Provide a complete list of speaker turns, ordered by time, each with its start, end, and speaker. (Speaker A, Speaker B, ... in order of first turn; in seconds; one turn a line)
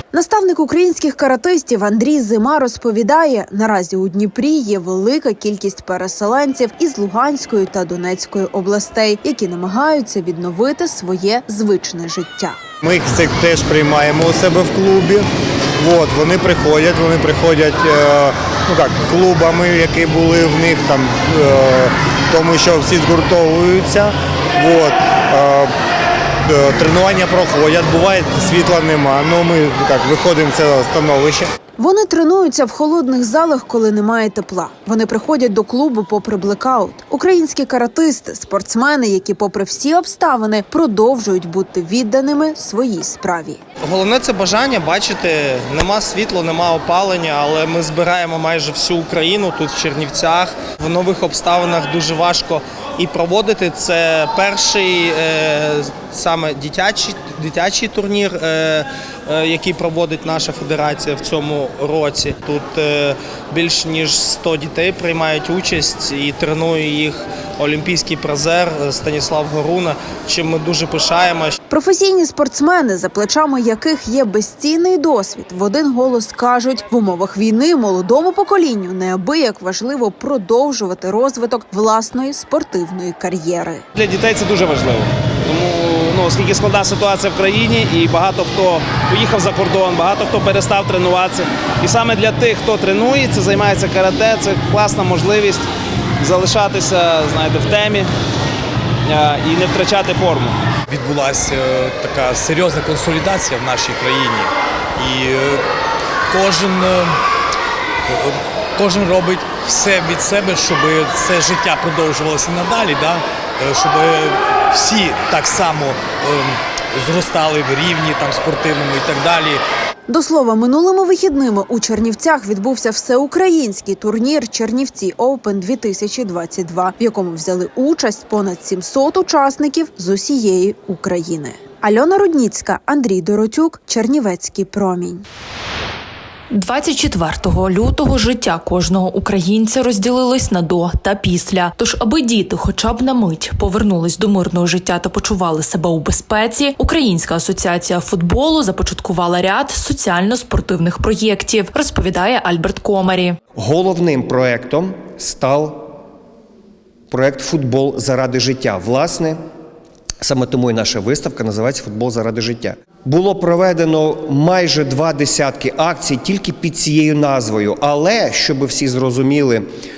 Speaker A: 0.1-12.6
Speaker B: 12.8-15.3
Speaker B: 15.8-25.7
Speaker B: 26.4-31.5
Speaker A: 31.8-43.6
Speaker C: 43.8-71.6
Speaker A: 71.7-83.8
Speaker C: 83.9-95.7
Speaker C: 96.2-98.1
Speaker C: 99.1-100.6
Speaker D: 100.9-105.6
Speaker D: 106.3-107.2
Speaker D: 108.1-119.6
Speaker A: 120.1-135.2
Speaker E: 136.5-153.4
Speaker F: 153.6-155.9
Speaker F: 157.1-159.4
Speaker F: 160.2-169.7